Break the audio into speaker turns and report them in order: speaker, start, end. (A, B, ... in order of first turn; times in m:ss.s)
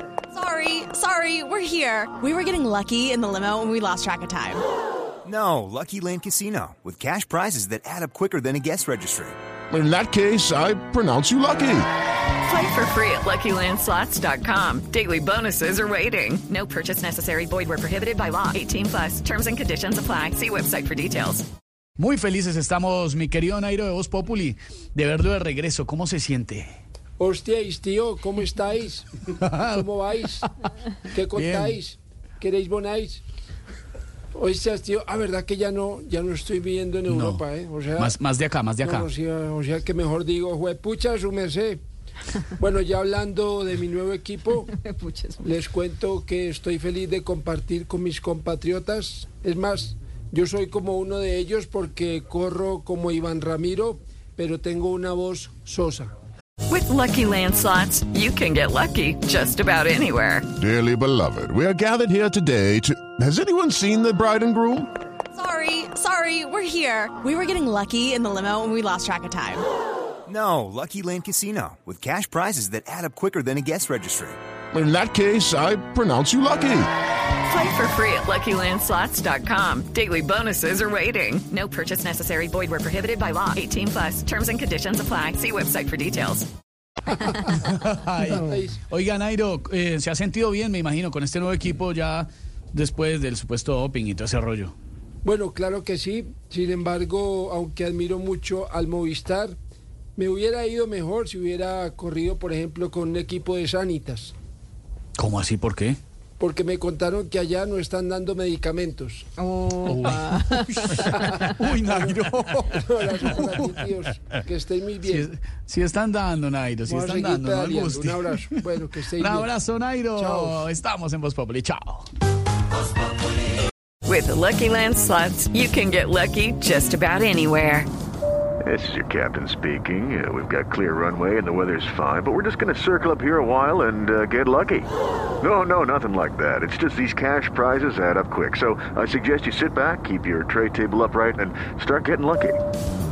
0:00.3-0:04.6 A
0:05.2-0:09.4 B
0:09.7-0:11.9 C
0:12.4-0:21.4 D
0:22.0-0:26.7 E
0:27.2-0:30.4 F
0:29.3-0:29.9 E
0:31.1-0:33.2 F
0:31.3-0:31.8 E
0:34.3-0:38.2 F
0:37.1-0:37.4 E
0:38.0-0:39.1 E
0:38.8-0:41.8 F
0:42.6-0:44.7 F
0:45.4-0:56.1 F
0:56.7-1:00.5 D
1:00.6-1:04.9 C
1:05.4-1:09.6 A
1:10.3-1:14.4 B
1:14.7-1:16.9 C
1:17.5-1:26.5 D
1:27.3-1:34.8 E
1:28.4-1:28.8 F
1:35.2-1:39.6 F
1:40.2-1:44.4 F
1:45.2-1:46.0 E
1:46.4-1:49.3 F
1:49.5-1:50.5 A
1:49.8-1:53.9 E
1:51.1-1:52.1 F
1:52.7-1:55.3 F
1:55.0-2:02.1 E
1:56.8-1:59.5 F
2:00.2-2:00.7 F
2:04.1-2:07.9 D
2:08.6-2:14.9 G
2:15.4-2:22.6 G